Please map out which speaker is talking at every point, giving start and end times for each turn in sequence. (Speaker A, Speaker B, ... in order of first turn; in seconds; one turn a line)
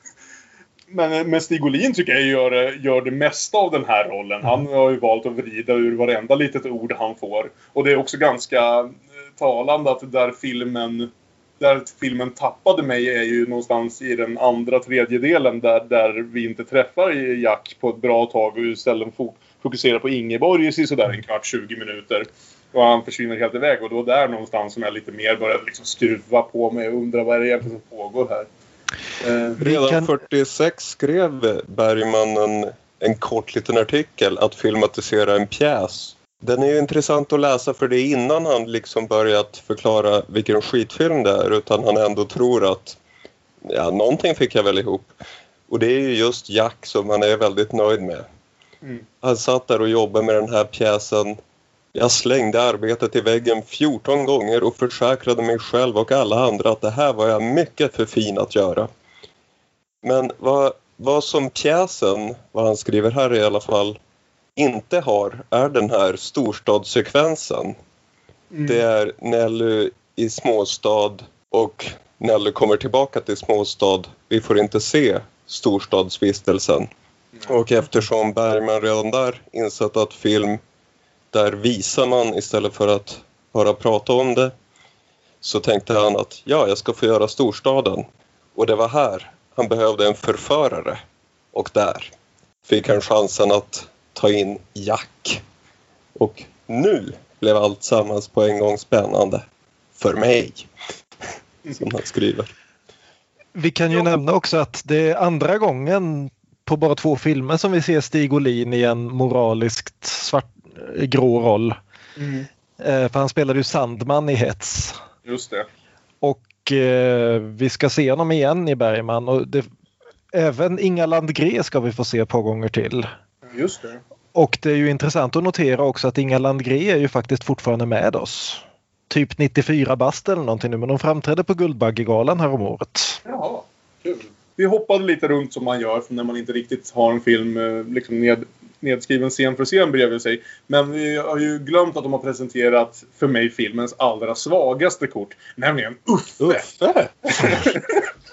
Speaker A: 0.9-28.5
Speaker A: 29.2-29.6
Speaker B: 29.6-43.0
Speaker C: 29.6-30.1
Speaker B: 43.6-45.2
Speaker B: 45.7-48.3
Speaker B: 49.2-51.4
Speaker B: 51.9-58.9
Speaker B: 60.0-64.0
Speaker B: 64.6-67.8
Speaker A: 68.5-68.8
Speaker B: 68.7-76.9
Speaker B: 77.5-80.6
Speaker B: 81.3-84.5
Speaker B: 85.4-91.0
Speaker B: 91.5-92.1
Speaker B: 92.7-95.4
Speaker B: 96.2-99.5
Speaker B: 100.0-100.7
Speaker B: 101.7-102.5
Speaker C: 103.5-111.8
Speaker A: 112.2-112.5
Speaker C: 112.8-115.0
Speaker A: 115.3-115.7
Speaker C: 116.2-119.7
Speaker C: 120.3-123.1
Speaker A: 123.5-124.0
Speaker C: 124.3-133.2
Speaker A: 133.2-146.7
Speaker B: 146.4-147.7
Speaker A: 147.3-148.1